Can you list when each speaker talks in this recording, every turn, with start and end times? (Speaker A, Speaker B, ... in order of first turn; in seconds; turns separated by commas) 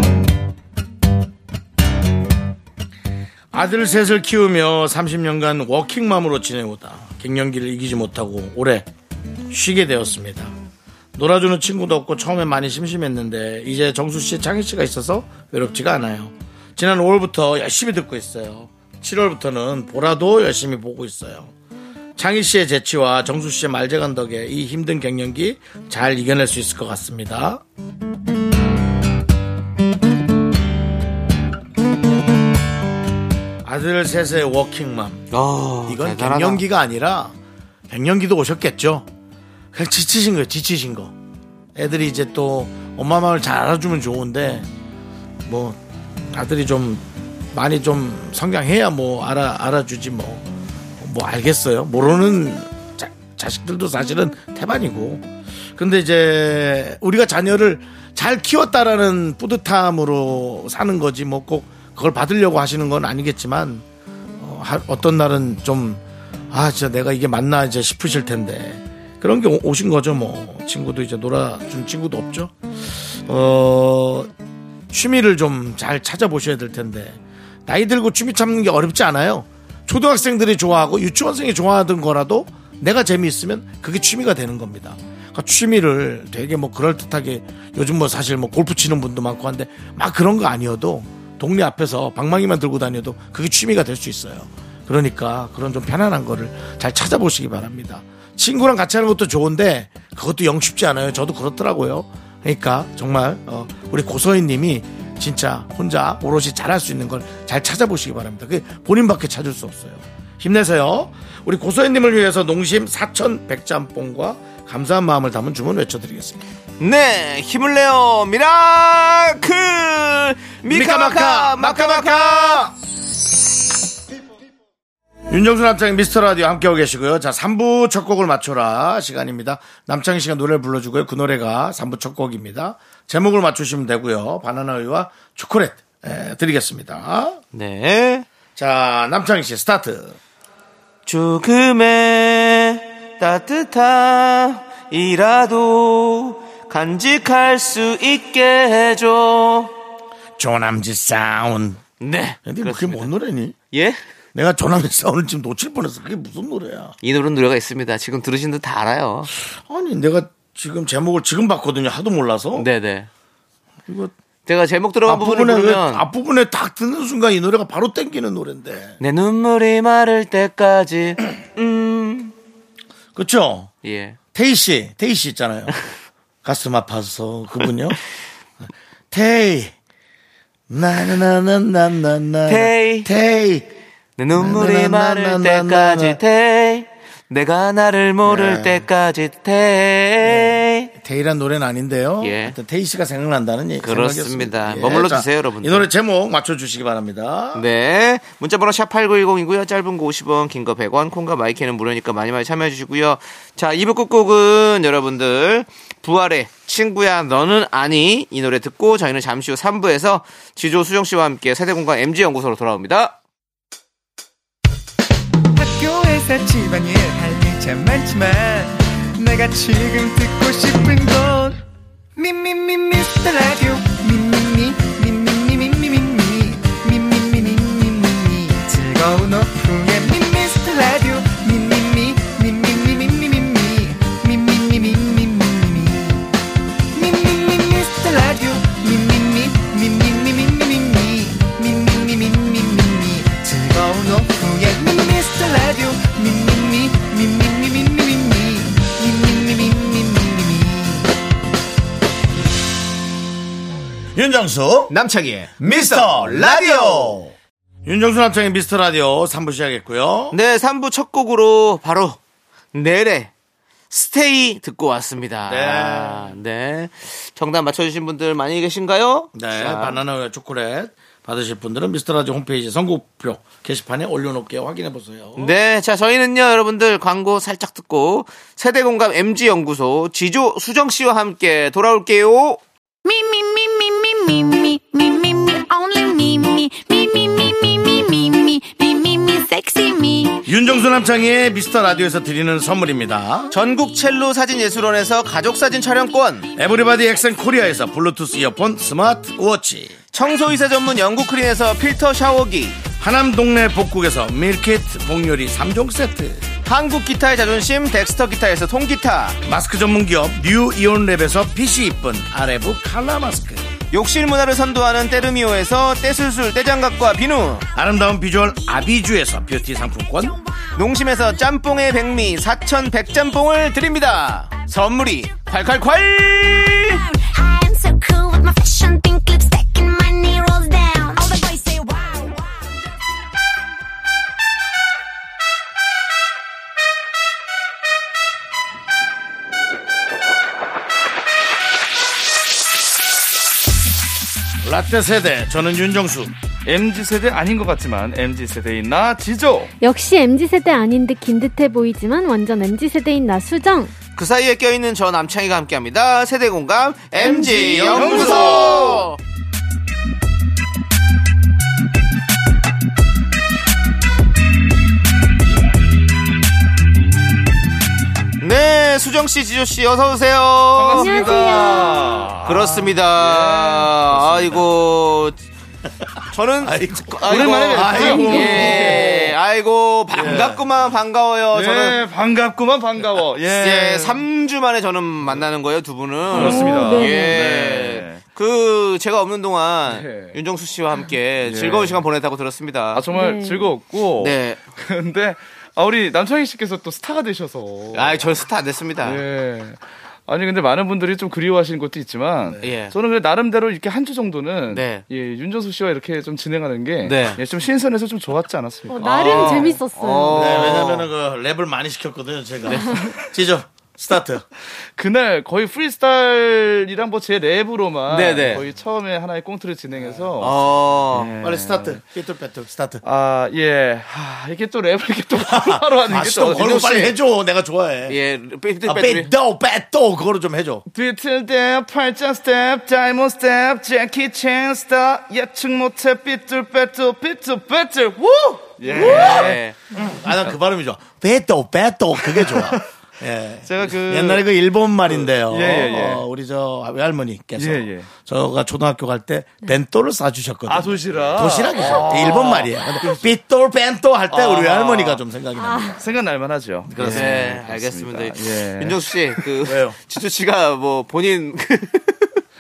Speaker A: 3.5-8.9, Speaker A: 9.5-10.5, Speaker A: 11.1-21.5, Speaker A: 22.1-27.6, Speaker A: 33.6-35.3, Speaker B: 35.3-36.6, Speaker A: 35.9-37.4, Speaker A: 37.9-39.1, Speaker A: 39.7-41.1, Speaker A: 41.7-44.7, Speaker A: 45.5-45.8, Speaker A: 46.3-50.5, Speaker A: 51.0-63.8, Speaker A: 64.4-74.3, Speaker A: 74.9-116.4, Speaker B: 116.8-122.7, Speaker A: 120.6-122.7, Speaker A: 125.3-137.4, Speaker B: 137.5-138.2, Speaker A: 138.6-140.2, Speaker B: 141.1-149.7, Speaker A: 150.4-151.8, Speaker B: 152.0-153.1, Speaker A: 152.4-153.6, Speaker B: 153.7-154.0, Speaker A: 154.3-156.9, Speaker B: 157.0-159.3, Speaker A: 159.3-162.7, Speaker B: 162.5-163.1, Speaker A: 163.9-164.1, Speaker B: 164.4-166.0, Speaker A: 165.1-169.0, Speaker B: 169.0-172.3, Speaker A: 173.1-173.7, Speaker B: 173.8-174.2, Speaker A: 174.3-175.7, Speaker A: 176.4-178.0, Speaker A: 179.1-179.7, Speaker A: 180.7-183.7, Speaker B: 182.4-183.1, Speaker B: 184.2-190.9, Speaker A: 184.3-186.2, Speaker A: 188.2-188.8, Speaker A: 190.2-197.6, Speaker B: 192.2-192.6, Speaker B: 193.8-195.9, Speaker B: 197.5-213.2, Speaker C: 215.5-221.6, Speaker C: 222.2-236.3, Speaker C: 236.9-251.1, Speaker A: 254.1-254.9, Speaker B: 254.9-257.3, Speaker A: 255.6-257.3, Speaker A: 257.9-260.4, Speaker B: 260.3-262.2, Speaker B: 262.7-263.3, Speaker B: 263.9-270.0, Speaker A: 265.5-266.3, Speaker A: 269.3-275.5, Speaker B: 275.4-282.6, Speaker D: 283.1-290.4, Speaker A: 290.4-293.5, Speaker B: 293.5-296.5, Speaker A: 296.6-300.0, Speaker B: 300.1-302.8, Speaker A: 303.0-306.4, Speaker B: 306.6-309.4, Speaker A: 309.4-313.6, Speaker B: 313.9-317.6, Speaker A: 317.7-320.4, Speaker B: 320.7-327.0, Speaker D: 327.3-332.4, Speaker A: 344.6-346.3, Speaker E: 346.6-349.7, Speaker F: 349.8-353.9, Speaker B: 354.1-359.2, Speaker A: 357.2-358.6, Speaker E: 357.7-359.1, Speaker B: 368.4-371.8, Speaker E: 370.8-374.6, Speaker F: 370.9-372.2, Speaker B: 372.4-375.4, Speaker B: 376.3-382.0, Speaker A: 376.6-379.3, Speaker E: 377.2-379.1, Speaker F: 377.9-379.0, Speaker A: 380.1-380.6, Speaker E: 381.5-384.2, Speaker B: 383.5-393.0, Speaker E: 386.3-388.2, Speaker F: 386.4-387.4, Speaker E: 389.9-390.4, Speaker E: 391.4-392.0, Speaker E: 392.9-398.3, Speaker F: 393.1-393.7, Speaker B: 394.2-394.6, Speaker B: 397.9-399.2, Speaker E: 399.0-409.9, Speaker B: 402.6-402.9, Speaker B: 404.7-405.0, Speaker B: 407.0-407.4, Speaker F: 408.9-410.6, Speaker B: 409.1-411.1, Speaker A: 410.3-414.4, Speaker B: 412.7-412.9, Speaker E: 414.9-422.0, Speaker B: 418.1-418.6, Speaker B: 420.4-421.3, Speaker A: 421.4-423.0, Speaker E: 423.0-426.9, Speaker A: 425.4-428.2, Speaker B: 426.5-427.1, Speaker B: 428.1-429.3, Speaker A: 428.8-430.8, Speaker E: 430.9-439.6, Speaker B: 438.9-439.8, Speaker A: 438.9-456.0, Speaker E: 442.3-442.8, Speaker E: 443.6-444.5, Speaker E: 445.1-446.2, Speaker E: 447.6-448.1, Speaker E: 450.7-453.3, Speaker E: 454.3-455.2, Speaker F: 455.6-455.9, Speaker E: 455.9-459.5, Speaker A: 456.9-457.5, Speaker B: 457.0-462.4, Speaker A: 459.6-459.9